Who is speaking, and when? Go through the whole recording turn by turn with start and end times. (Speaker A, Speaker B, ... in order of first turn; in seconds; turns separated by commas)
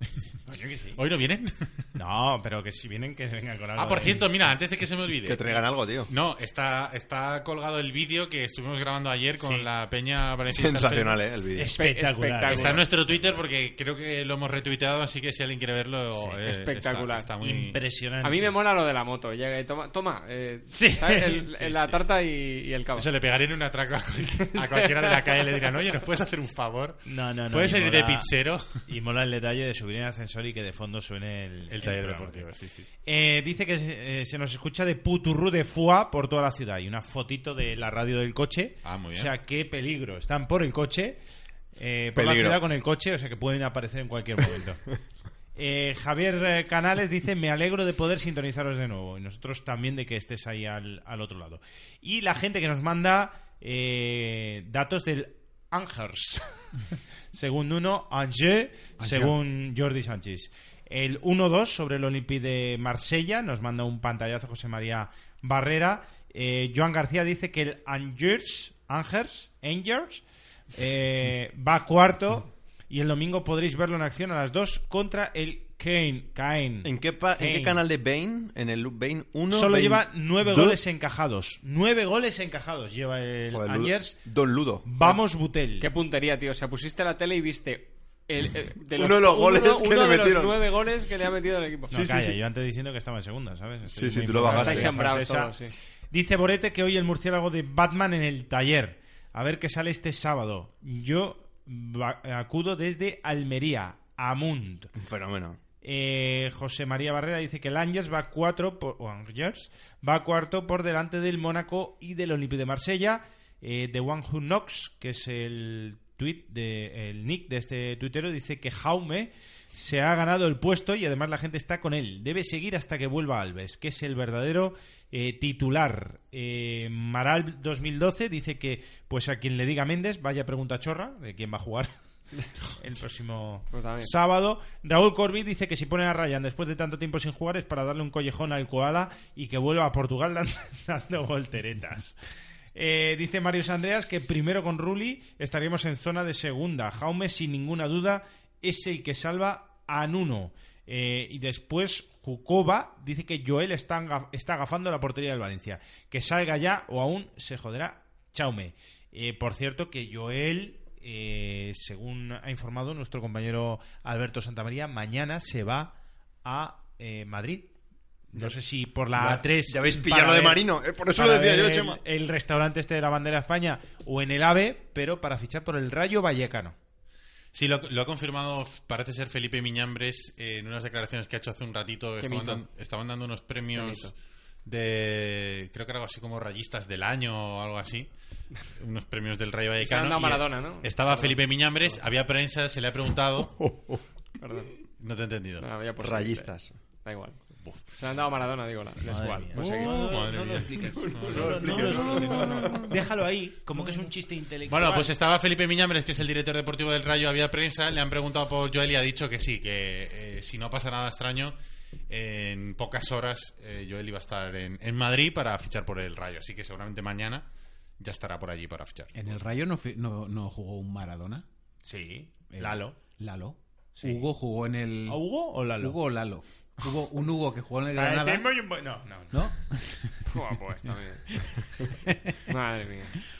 Speaker A: 0.5-1.0, Speaker B: 1.0-1.9, Speaker A: 2.0-4.3, Speaker B: 3.8-11.2, Speaker C: 5.2-6.1, Speaker A: 9.4-9.7, Speaker C: 10.5-11.8, Speaker A: 11.6-13.4, Speaker D: 11.7-12.8, Speaker B: 12.5-17.8, Speaker D: 16.4-17.3, Speaker A: 17.4-18.5, Speaker D: 18.2-23.1, Speaker A: 20.7-22.0, Speaker B: 23.0-28.8, Speaker D: 24.5-25.2, Speaker A: 27.1-28.3, Speaker A: 28.9-32.5, Speaker B: 31.7-32.9, Speaker A: 33.0-41.2, Speaker B: 38.9-39.3, Speaker A: 41.8-44.8, Speaker C: 42.1-42.6, Speaker A: 45.6-56.5, Speaker A: 57.3-70.2, Speaker E: 59.0-59.4, Speaker A: 70.8-77.8, Speaker C: 76.8-80.8, Speaker A: 79.5-84.2, Speaker C: 83.5-85.1, Speaker A: 84.8-85.9, Speaker D: 85.8-92.0, Speaker C: 88.9-90.8, Speaker C: 91.9-92.4, Speaker A: 91.9-95.5, Speaker C: 93.8-95.0, Speaker D: 94.4-95.7, Speaker A: 96.1-104.9, Speaker C: 105.0-105.6, Speaker A: 105.8-132.0, Speaker A: 132.8-142.2, Speaker D: 133.7-134.1, Speaker A: 142.8-167.7, Speaker A: 168.3-176.8, Speaker C: 169.1-172.0, Speaker B: 177.5-184.1, Speaker D: 182.2-182.6, Speaker D: 183.8-184.1, Speaker B: 184.7-188.1, Speaker B: 188.8-193.6, Speaker D: 189.8-191.3, Speaker C: 193.6-194.0, Speaker D: 194.4-194.7, Speaker B: 195.0-195.7, Speaker D: 195.6-196.5, Speaker C: 196.0-196.7, Speaker D: 197.0-197.4, Speaker D: 197.9-199.9, Speaker A: 199.0-205.1, Speaker B: 199.5-202.9, Speaker C: 201.0-202.9, Speaker B: 204.7-211.6, Speaker B: 212.1-217.5, Speaker B: 218.0-219.3, Speaker E: 219.1-221.4, Speaker A: 221.9-223.0, Speaker E: 222.5-225.2, Speaker A: 224.0-224.2, Speaker A: 225.1-226.0, Speaker E: 225.8-228.5, Speaker A: 227.9-229.5, Speaker E: 229.3-230.1, Speaker D: 230.3-231.2, Speaker E: 232.1-232.3, Speaker D: 232.5-233.2